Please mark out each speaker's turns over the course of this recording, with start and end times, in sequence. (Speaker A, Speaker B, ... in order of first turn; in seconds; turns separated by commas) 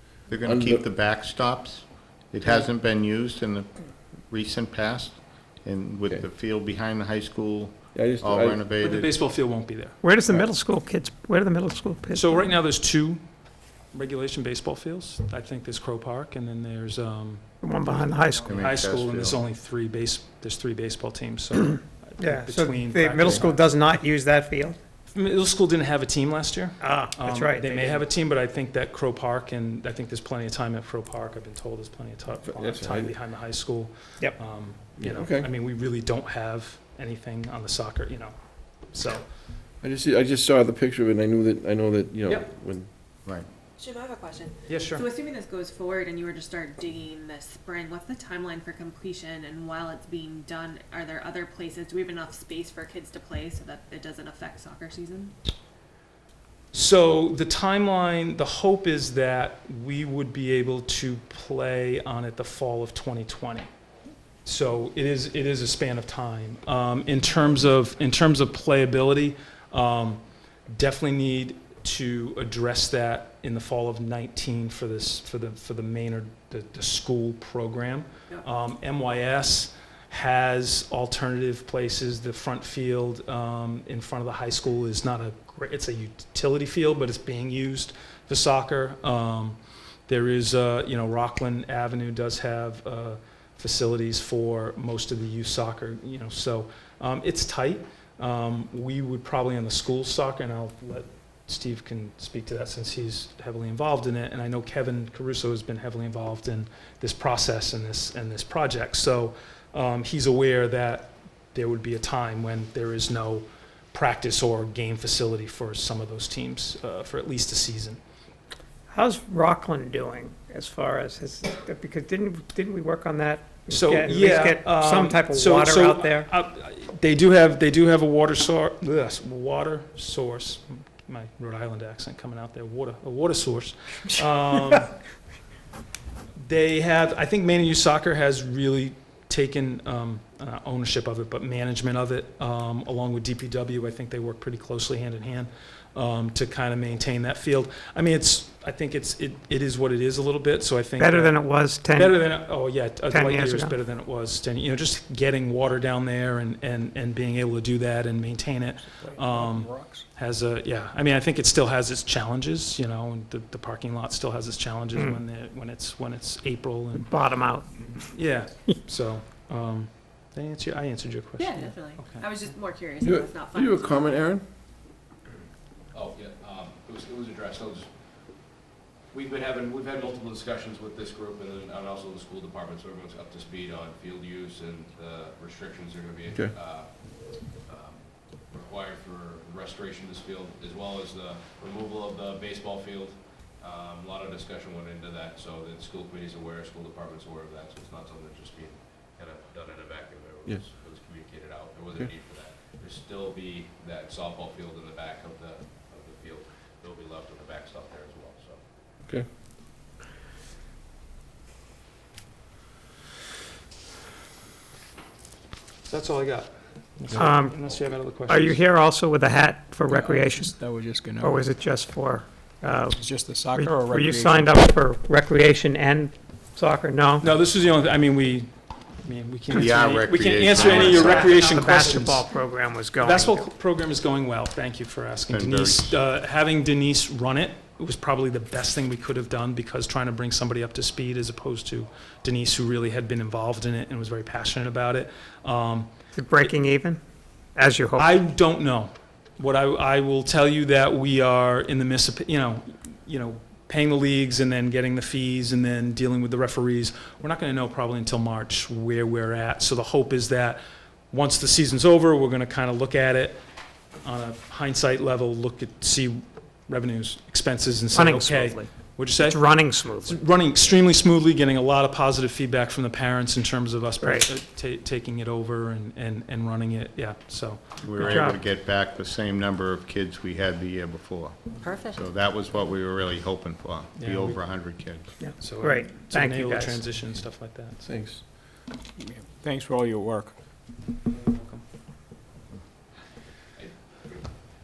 Speaker A: 0.3-3.8, Speaker B: 0.5-0.8, Speaker A: 4.3-9.1, Speaker B: 7.9-8.6, Speaker C: 8.8-10.0, Speaker D: 10.0-12.5, Speaker C: 12.1-13.2, Speaker C: 13.9-17.4, Speaker D: 17.6-18.6, Speaker C: 18.0-23.6, Speaker A: 18.4-19.4, Speaker D: 22.2-24.8, Speaker C: 25.1-38.3, Speaker D: 26.8-28.1, Speaker B: 32.5-33.1, Speaker B: 35.0-35.5, Speaker C: 38.9-39.2, Speaker B: 39.8-42.9, Speaker E: 43.8-55.3, Speaker C: 44.7-45.0, Speaker C: 56.7-63.7, Speaker C: 64.5-118.0, Speaker D: 118.9-126.3, Speaker C: 123.7-134.9, Speaker C: 136.4-151.4, Speaker D: 151.0-152.3, Speaker C: 151.9-167.2, Speaker D: 153.1-153.8, Speaker F: 159.0-160.1, Speaker D: 167.1-167.9, Speaker C: 168.0-172.2, Speaker E: 171.4-174.1, Speaker B: 173.0-174.4, Speaker G: 175.9-178.0, Speaker G: 179.1-208.6, Speaker C: 215.9-218.6, Speaker D: 217.2-217.6, Speaker D: 218.3-220.6, Speaker F: 219.9-221.4, Speaker D: 221.2-223.0, Speaker F: 222.9-224.6, Speaker D: 223.6-227.3, Speaker C: 227.2-228.5, Speaker C: 229.0-232.3, Speaker A: 229.5-231.4, Speaker D: 230.5-233.5, Speaker C: 233.0-245.9, Speaker A: 235.3-236.0, Speaker D: 246.2-247.0, Speaker D: 247.6-248.2, Speaker C: 248.0-263.4, Speaker C: 264.0-269.4, Speaker D: 267.9-270.2, Speaker C: 270.0-278.3, Speaker D: 274.0-274.3, Speaker A: 277.8-285.1, Speaker D: 278.0-278.4, Speaker C: 284.0-284.4, Speaker D: 285.2-286.9, Speaker C: 285.4-287.9, Speaker B: 287.8-288.2, Speaker F: 289.0-290.3, Speaker C: 291.3-291.6, Speaker G: 293.6-294.3